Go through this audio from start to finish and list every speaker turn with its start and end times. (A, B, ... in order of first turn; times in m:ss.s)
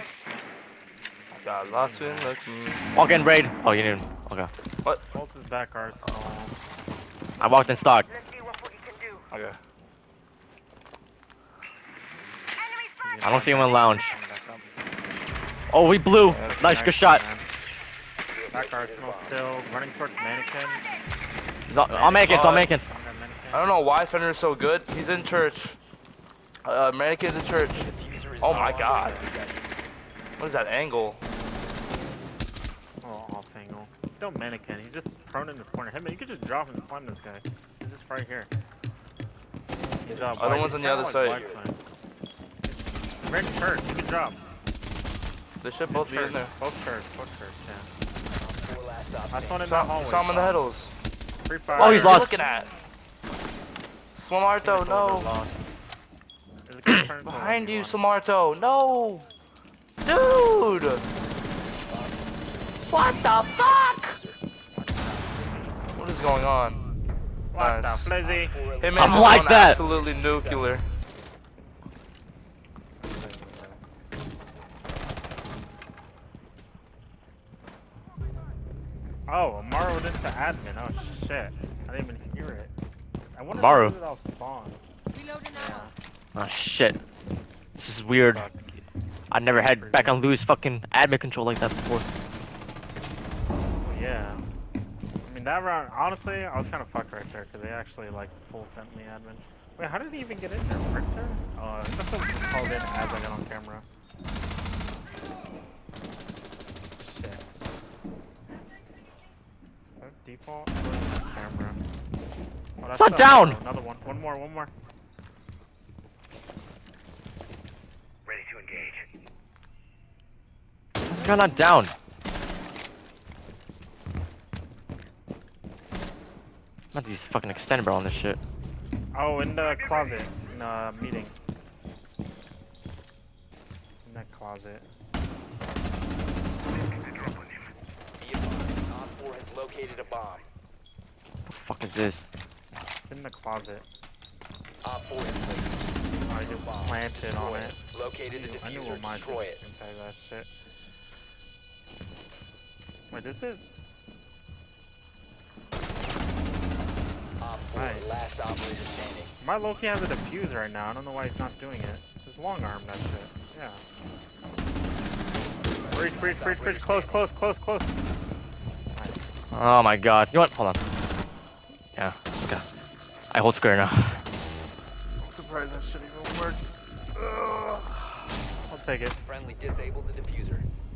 0:01.3-0:02.9 A
0:01.6-0:02.4 B
0:02.9-0:04.5 C
0:05.1-0:06.6 B
0:07.4-0:08.1 C
0:09.3-0:09.6 A
0:13.0-0:15.0 B
0:13.2-0:14.1 C
0:15.7-0:17.2 C
0:16.2-0:16.6 A
0:16.5-0:17.5 B
0:18.3-0:19.4 D
0:18.5-0:20.8 B
0:21.7-0:22.9 C
0:21.8-0:23.7 B
0:22.3-0:22.7 A
0:23.5-0:25.8 A
0:26.6-0:27.9 A
0:27.7-0:29.7 D
0:28.4-0:29.2 A
0:28.5-0:29.2 B
0:30.4-0:31.2 A
0:33.0-0:38.5 B
0:40.0-0:41.8 B
0:40.1-0:41.5 A
0:41.2-0:41.6 D
0:42.6-0:44.4 B
0:45.6-0:46.5 A
0:45.9-0:47.9 B
0:48.3-0:49.7 D
0:49.3-0:50.6 B
0:49.7-0:50.9 A
0:51.4-0:52.4 B
0:51.8-0:52.3 C
0:51.8-0:52.7 A
0:54.2-0:55.3 A
0:54.6-0:55.7 B
0:56.7-0:58.0 B
0:57.2-0:59.3 A
1:00.0-1:01.0 A
1:01.8-1:02.3 D
1:02.9-1:04.2 A
1:03.5-1:04.4 D
1:04.7-1:05.8 B
1:05.9-1:06.8 A
1:07.5-1:08.6 B
1:07.6-1:08.1 A
1:08.2-1:10.8 D
1:08.8-1:10.8 A
1:08.9-1:09.8 C
1:13.0-1:13.8 B
1:19.3-1:22.7 B
1:23.4-1:24.8 B
1:23.5-1:24.0 C
1:25.4-1:25.9 B
1:26.4-1:27.0 C
1:27.8-1:28.4 C
1:28.1-1:28.8 B
1:29.3-1:32.1 C
1:29.5-1:30.2 B
1:33.8-1:34.5 B
1:35.2-1:43.9 B
1:47.0-1:47.4 B
1:50.0-1:51.8 B
1:52.8-1:54.7 B
1:52.9-1:53.6 C
1:58.3-1:58.9 D
2:01.1-2:01.9 C
2:01.1-2:01.6 B
2:06.9-2:08.4 C
2:09.1-2:11.3 B
2:14.0-2:14.9 B
2:18.2-2:20.5 D
2:21.5-2:22.3 C
2:23.1-2:23.8 B
2:24.8-2:25.8 D
2:26.3-2:30.5 B
2:26.3-2:29.6 D
2:33.1-2:34.0 B
2:37.4-2:39.3 D
2:37.7-2:38.1 B
2:39.4-2:43.8 B
2:45.7-2:47.3 D
2:45.9-2:48.0 B
2:48.9-2:49.2 B
2:49.5-2:50.8 C
2:52.0-2:52.6 C
2:53.3-2:54.2 C
2:55.2-2:57.9 A
2:58.7-2:59.2 B
2:59.2-3:00.6 D